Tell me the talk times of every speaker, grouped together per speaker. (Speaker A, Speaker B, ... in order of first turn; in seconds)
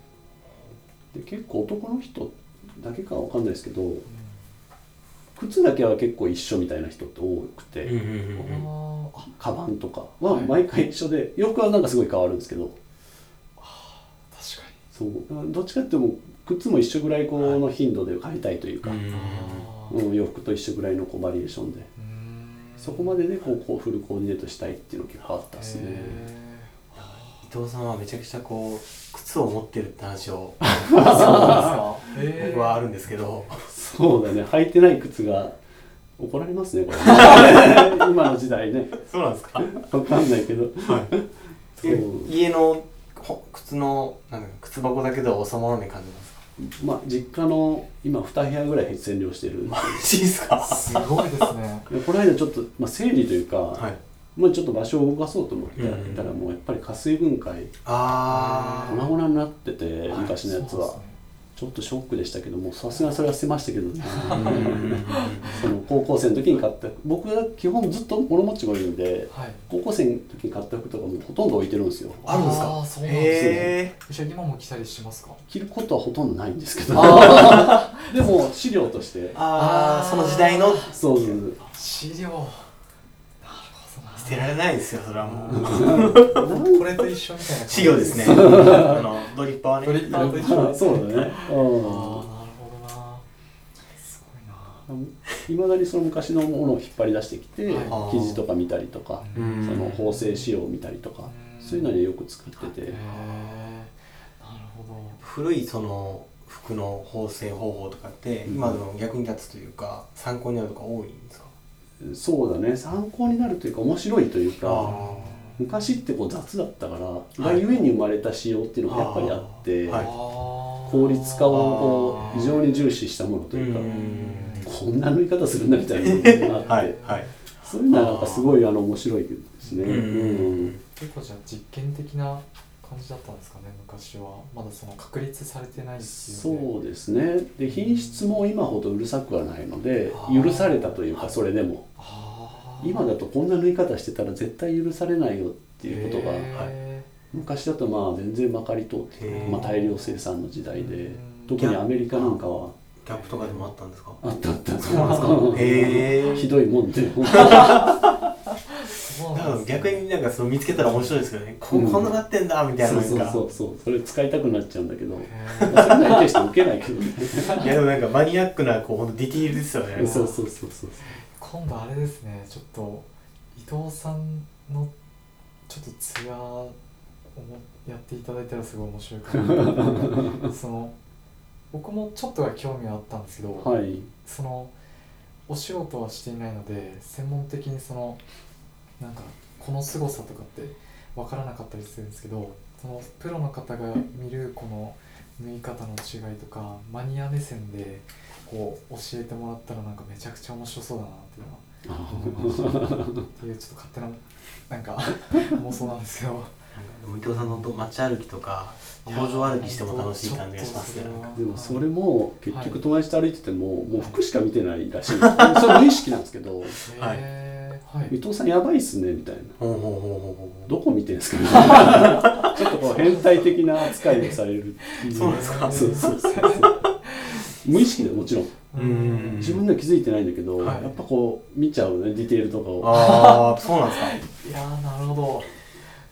Speaker A: 1.1-4.0, 5.3-8.0, 9.3-12.8, 14.9-19.0, 19.9-21.9, 22.8-26.3, 30.6-31.8, 33.6-35.6, 36.2-39.0, 39.6-42.3, 46.6-50.1, 51.9-57.8, 58.9-61.0, 61.5-72.7, 73.3-73.7, 75.5-79.4, 80.9-81.6, 85.5-87.0, 88.0-89.0, 90.1-92.3, 94.9-103.1, 108.5-108.8, 112.0-115.0, 115.6-120.1, 120.9-124.0, 124.6-126.9, 127.6-130.7, 136.0-141.9, 142.8-146.5, 147.3-152.8, 154.2-158.2, 161.7-162.2, 162.8-167.7, 170.0-171.1, 179.4-180.5, 183.6-184.1, 201.8-203.3, 211.3-216.8, 218.1-219.6, 220.7-226.8, 227.4-228.6, 229.4-233.0
Speaker B: 4.1-4.4, 8.4-9.3, 10.3-10.6, 13.6-14.8, 19.1-20.0, 22.0-23.2, 25.5-27.4, 30.9-32.8, 50.6-51.9, 58.3-59.1, 60.4-61.2, 62.9-63.2, 64.0-65.7, 69.3-69.7, 72.2-75.4, 76.9-78.5, 79.3-80.9, 81.6-82.7, 83.4-84.6, 85.2-89.3, 89.8-93.3, 93.9-94.9, 97.7-98.0, 99.2-100.5, 101.3-102.0, 102.8-105.2, 114.8-115.9, 119.9-122.9, 123.8-124.7, 126.2-127.4, 129.6-130.1, 130.8-136.7, 137.7-138.2, 140.4-141.4, 142.0-143.1, 145.8-147.1, 149.3-151.7, 153.1-153.7, 154.9-156.5, 157.3-157.8, 158.8-160.1, 160.7-161.2, 165.2-166.2, 167.4-167.7, 170.0-170.4, 171.0-174.9, 175.7-176.8, 177.3-180.9, 181.7-184.7, 185.5-188.2, 189.0-206.5, 207.3-207.7, 209.0-211.8, 212.5-212.8, 216.9-218.2, 222.5-224.2, 224.9-228.0, 228.7-229.6, 232.9-235.6
Speaker C: 7.8-8.7, 17.4-17.6, 18.8-19.7, 27.0-33.7, 37.0-38.0, 39.0-39.8, 40.8-41.1, 41.8-46.4, 49.7-51.5, 53.7-54.0, 55.8-56.4, 57.9-59.1, 60.1-60.4, 64.3-65.6, 72.3-74.0, 77.0-77.8, 79.3-81.4, 84.2-86.4, 87.7-91.3, 97.8-98.4, 99.3-100.0, 105.2-111.5, 114.6-115.5, 117.4-117.8, 118.9-120.1, 121.5-122.5, 123.5-124.7, 126.0-127.3, 127.9-128.5, 129.8-130.8, 140.1-140.7, 149.2-149.7, 151.6-154.2, 154.8-156.5, 157.3-158.1, 159.3-163.4, 165.6-166.4, 167.4-170.2, 206.7-211.3, 215.2-215.9, 216.8-217.2, 219.6-220.7, 221.8-222.5, 225.1-226.3, 228.8-229.6, 230.6-230.9, 232.8-234.2